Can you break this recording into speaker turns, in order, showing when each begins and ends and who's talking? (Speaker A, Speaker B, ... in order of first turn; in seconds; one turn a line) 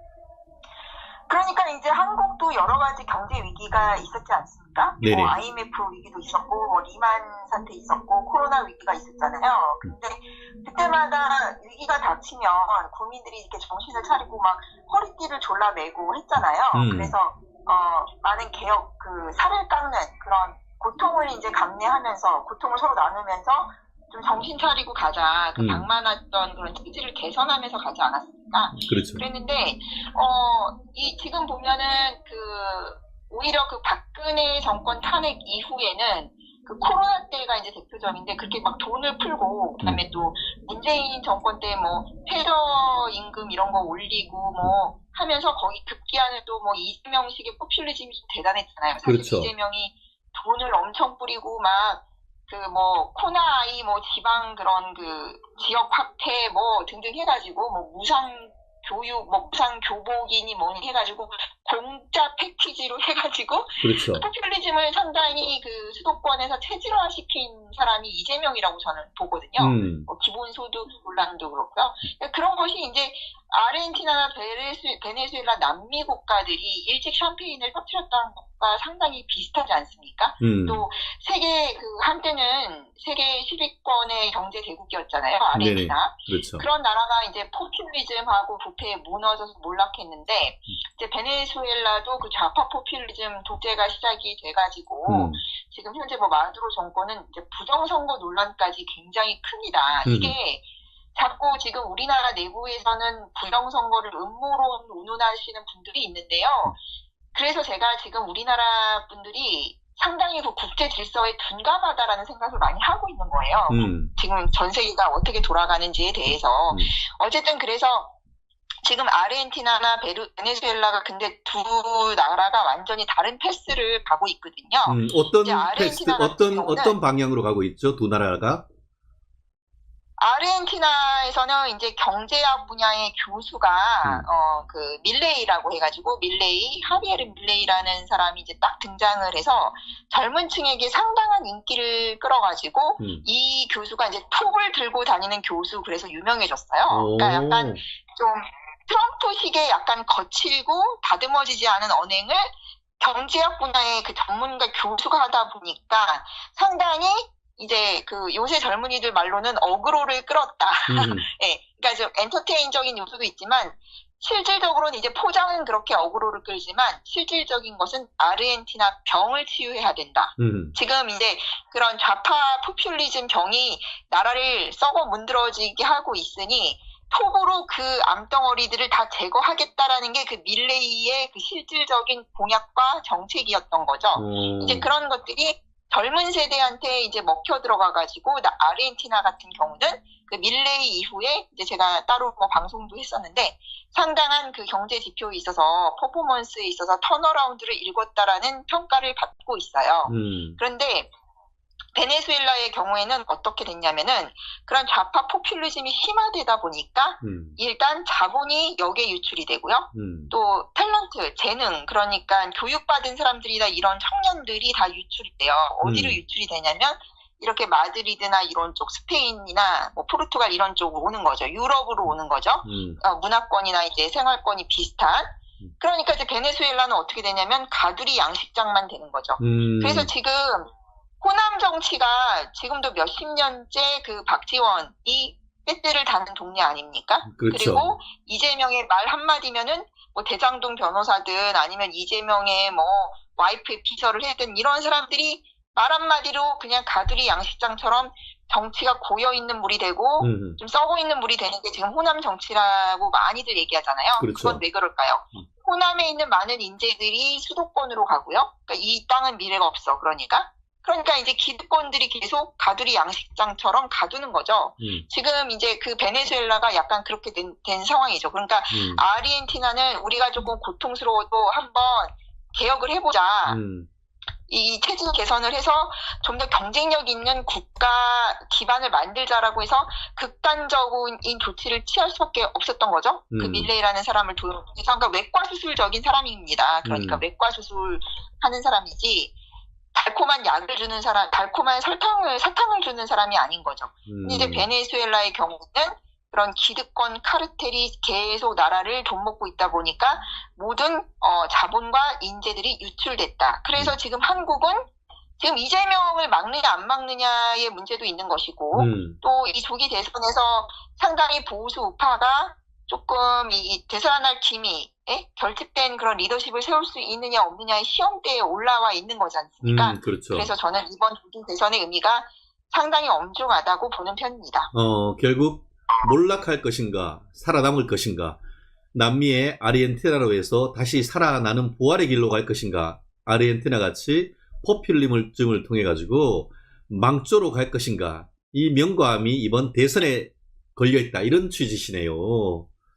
Speaker A: 1.3-100.6
Speaker B: 5.0-5.4
Speaker B: 16.7-17.1
Speaker B: 25.6-25.9
Speaker B: 28.7-29.2
Speaker B: 49.0-49.5
Speaker B: 63.8-64.2
Speaker B: 69.6-70.1
Speaker B: 80.4-80.8
Speaker B: 85.5-86.7
Speaker B: 95.1-95.4
Speaker B: 100.0-100.3
Speaker A: 101.1-106.7
Speaker A: 107.3-118.1
Speaker B: 113.7-114.1
Speaker A: 118.8-127.0
Speaker B: 124.9-128.6
Speaker A: 130.2-201.1
Speaker B: 143.0-143.2
Speaker B: 146.9-147.8
Speaker B: 160.9-161.2
Speaker B: 170.4-170.7
Speaker B: 184.2-184.9
Speaker B: 200.1-200.6
Speaker A: 201.9-230.7
Speaker B: 207.2-207.6
Speaker B: 209.9-210.3
Speaker B: 215.8-216.2
Speaker B: 222.6-223.0
Speaker B: 229.4-230.1
Speaker A: 231.2-273.6
Speaker B: 237.2-238.0
Speaker B: 250.2-250.6
Speaker B: 254.2-254.6
Speaker B: 264.8-265.1
Speaker B: 268.7-269.0
Speaker B: 273.4-273.9
Speaker A: 274.5-289.3
Speaker B: 283.3-283.7
Speaker B: 286.8-287.2
Speaker A: 289.9-324.7
Speaker B: 294.1-294.6
Speaker B: 308.7-309.2
Speaker B: 319.6-320.5
Speaker B: 324.7-328.4
Speaker B: 328.9-342.7